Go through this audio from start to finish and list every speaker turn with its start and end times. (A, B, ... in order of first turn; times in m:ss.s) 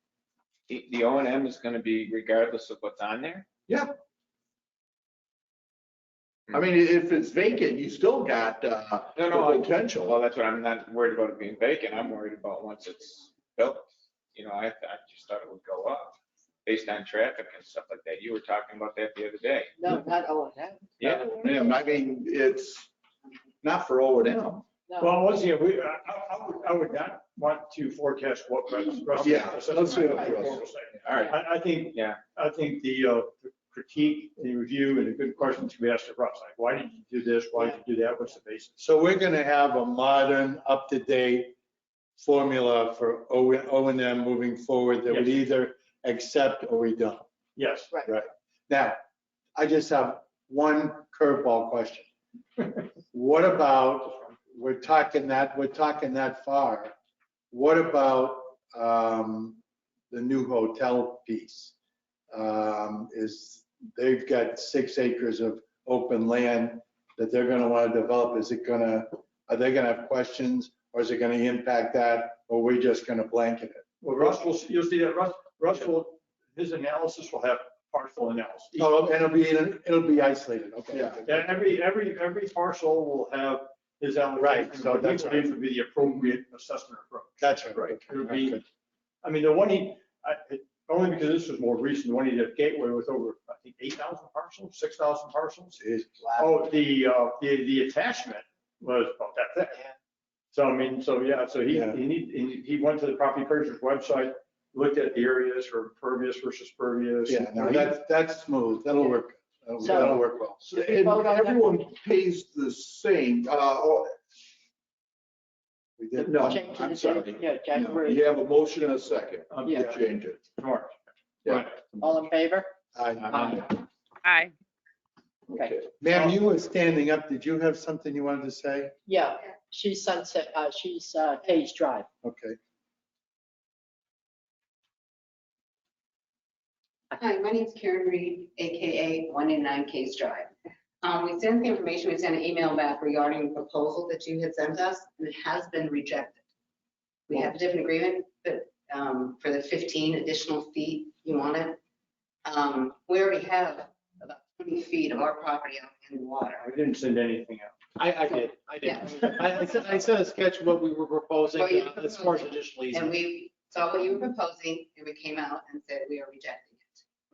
0:00.7-0:03.5 A
0:03.7-0:04.0 B
0:06.5-0:10.2 B
0:09.2-0:19.7 A
0:19.8-0:22.1 C
0:21.0-0:21.3 A
0:21.1-0:22.9 B
0:23.6-0:24.7 B
0:24.9-0:25.2 C
0:25.0-0:38.8 D
0:29.2-0:30.9 B
0:30.0-0:30.3 C
0:31.1-0:32.2 A
0:38.8-0:41.6 E
0:42.2-0:47.3 E
0:45.1-0:45.4 D
0:47.6-0:48.0 D
0:48.0-0:49.0 E
0:49.6-0:52.1 E
0:53.1-0:57.0 E
0:57.5-0:59.6 E
1:00.1-1:01.7 E
1:02.3-1:13.8 E
1:14.0-1:18.9 D
1:18.8-1:21.4 E
1:20.9-1:21.2 B
1:21.2-1:28.6 D
1:24.4-1:25.5 E
1:27.4-1:28.6 E
1:29.2-1:35.8 D
1:35.8-1:36.6 E
1:36.4-1:39.9 D
1:40.5-1:47.9 D
1:41.7-1:42.0 E
1:47.3-1:50.6 E
1:49.8-1:50.2 C
1:50.6-1:54.1 B
1:50.8-1:51.8 C
1:56.0-1:56.7 E
1:56.2-1:58.2 C
1:56.3-2:00.4 B
1:59.5-2:01.7 D
1:59.6-1:59.9 C
2:01.4-2:01.8 B
2:01.9-2:02.7 C
2:02.9-2:03.6 E
2:03.3-2:03.7 C
2:05.5-2:05.8 C
2:05.5-2:05.8 B
2:06.0-2:08.9 E
2:09.1-2:12.1 C
2:12.2-2:12.6 E
2:17.1-2:20.5 F
2:21.0-2:26.4 F
2:27.3-2:31.8 F
2:32.4-2:36.7 F
2:36.6-2:38.0 D
2:38.0-2:43.1 G
2:38.8-2:39.7 F
2:41.5-2:47.0 F